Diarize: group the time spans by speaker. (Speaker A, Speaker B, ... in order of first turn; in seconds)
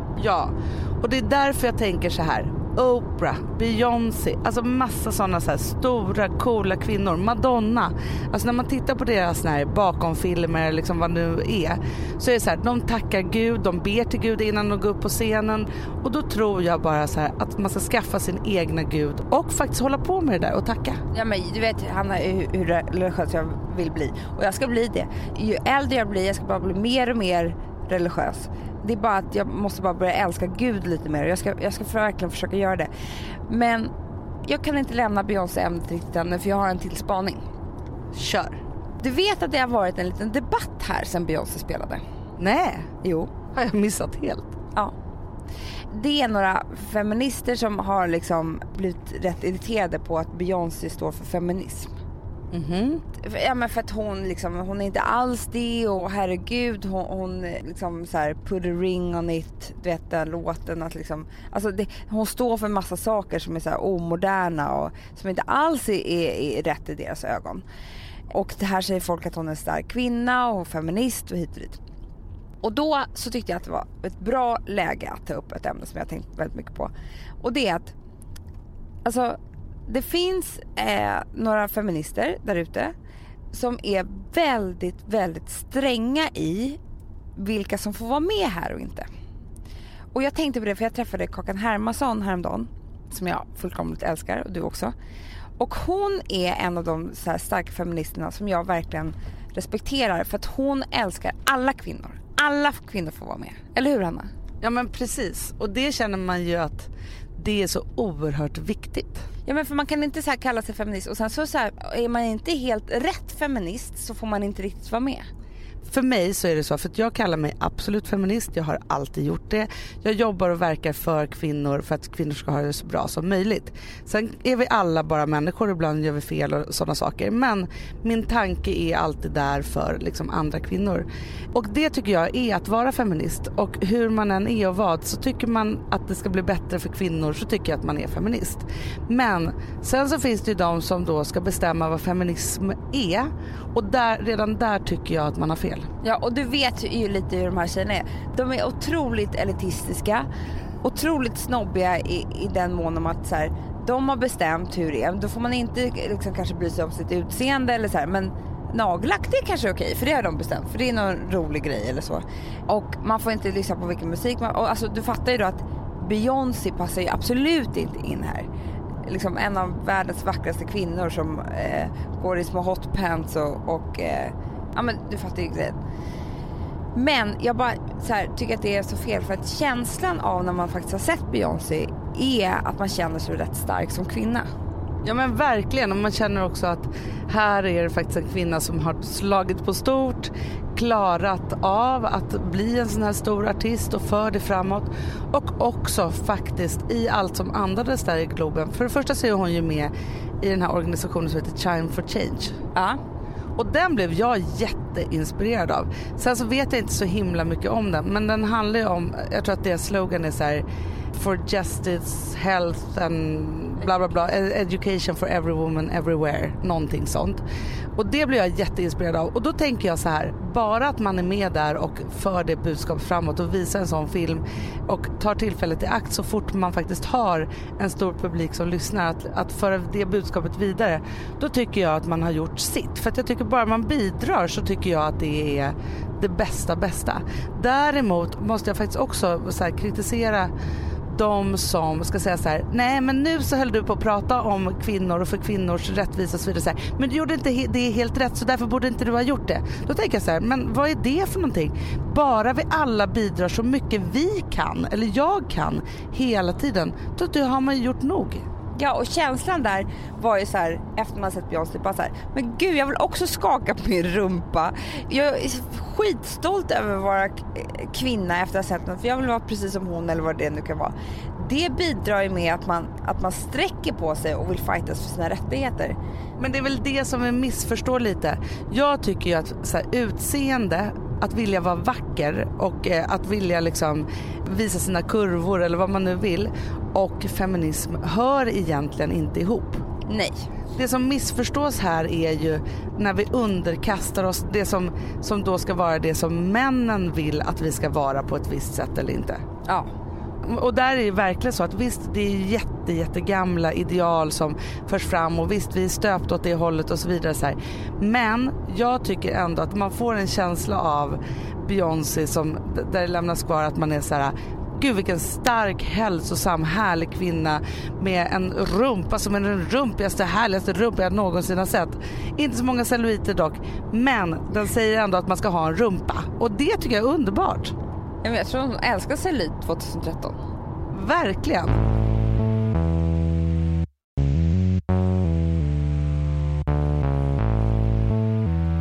Speaker A: 0.2-21.0, 38.1-38.6, 42.4-42.9, 43.5-44.5, 52.5-53.0, 104.6-109.3, 115.8-145.9, 185.0-202.6, 203.6-217.4, 218.0-240.5, 241.1-258.4, 276.4-289.9, 290.8-299.4, 300.4-327.7, 330.9-331.8
Speaker B: 21.1-32.9, 33.5-33.9, 34.4-37.4, 39.0-42.0, 43.0-43.3, 45.9-51.9, 53.1-67.6, 68.3-71.8, 72.6-77.9, 79.0-82.9, 83.5-86.8, 87.3-89.1, 90.1-94.9, 95.6-104.3, 109.5-115.2, 146.0-150.3, 150.8-168.5, 169.0-175.8, 176.9-184.5, 258.7-276.0, 290.1-290.4, 328.2-330.4